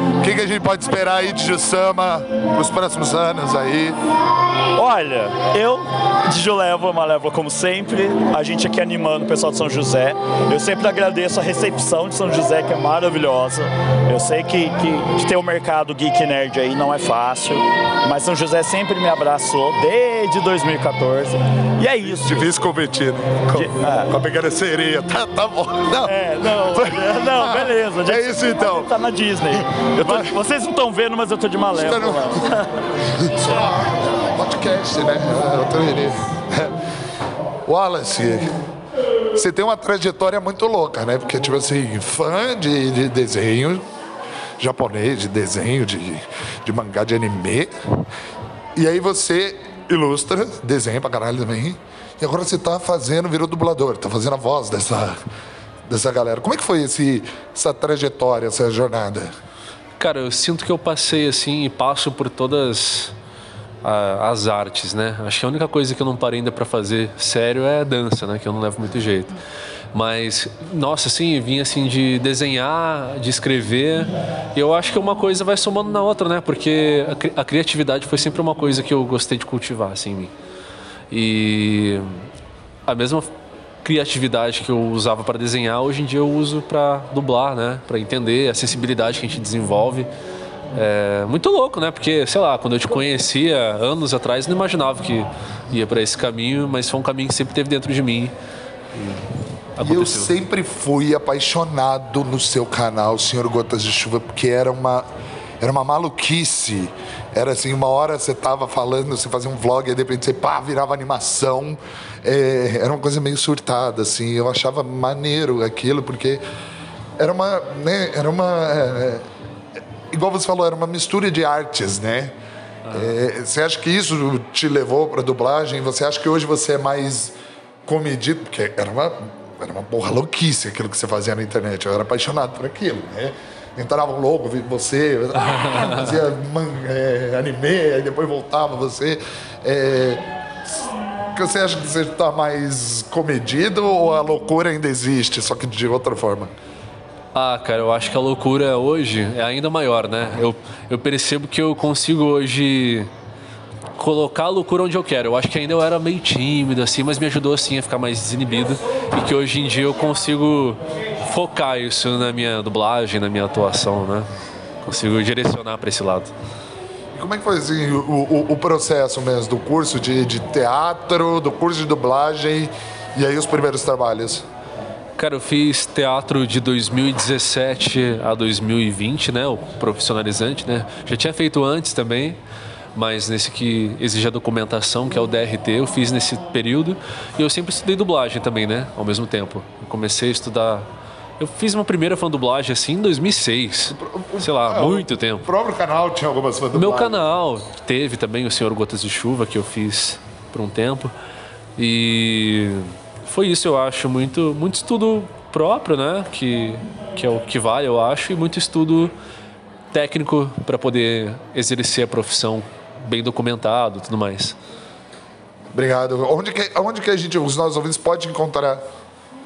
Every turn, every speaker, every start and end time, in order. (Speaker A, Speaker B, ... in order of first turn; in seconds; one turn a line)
Speaker A: 0.2-4.0
Speaker B: 4.8-22.5
Speaker A: 22.0-28.9
Speaker B: 23.5-24.1
Speaker B: 26.0-32.7
Speaker A: 30.0-30.3
Speaker A: 31.7-32.6
Speaker A: 33.2-36.7
Speaker A: 37.6-38.5
Speaker A: 39.3-43.8
Speaker A: 44.6-47.7
Speaker A: 48.8-55.2
Speaker A: 55.9-59.3
Speaker C: 60.0-63.1
Speaker C: 63.8-69.3
Speaker C: 69.9-80.3
Speaker C: 81.1-82.3
Speaker C: 82.9-83.3
Speaker C: 83.8-90.1
Speaker C: 90.7-98.3
Speaker C: 99.8-100.3
Speaker A: 99.8-105.0
Speaker A: 105.6-116.4
Speaker A: 117.2-119.2
Speaker A: 120.1-122.3
Speaker A: 122.9-127.3
Speaker A: 127.8-146.5
Speaker C: 147.3-153.1
Speaker C: 154.0-164.3
Speaker C: 164.8-166.3
Speaker A: 167.1-174.4
Speaker C: 175.2-182.4
Speaker C: 182.9-190.8
Speaker C: 191.4-195.4
Speaker A: 193.9-197.3
Speaker C: 196.7-201.1
Speaker C: 201.8-209.1
Speaker C: 209.9-214.6
Speaker A: 215.7-218.8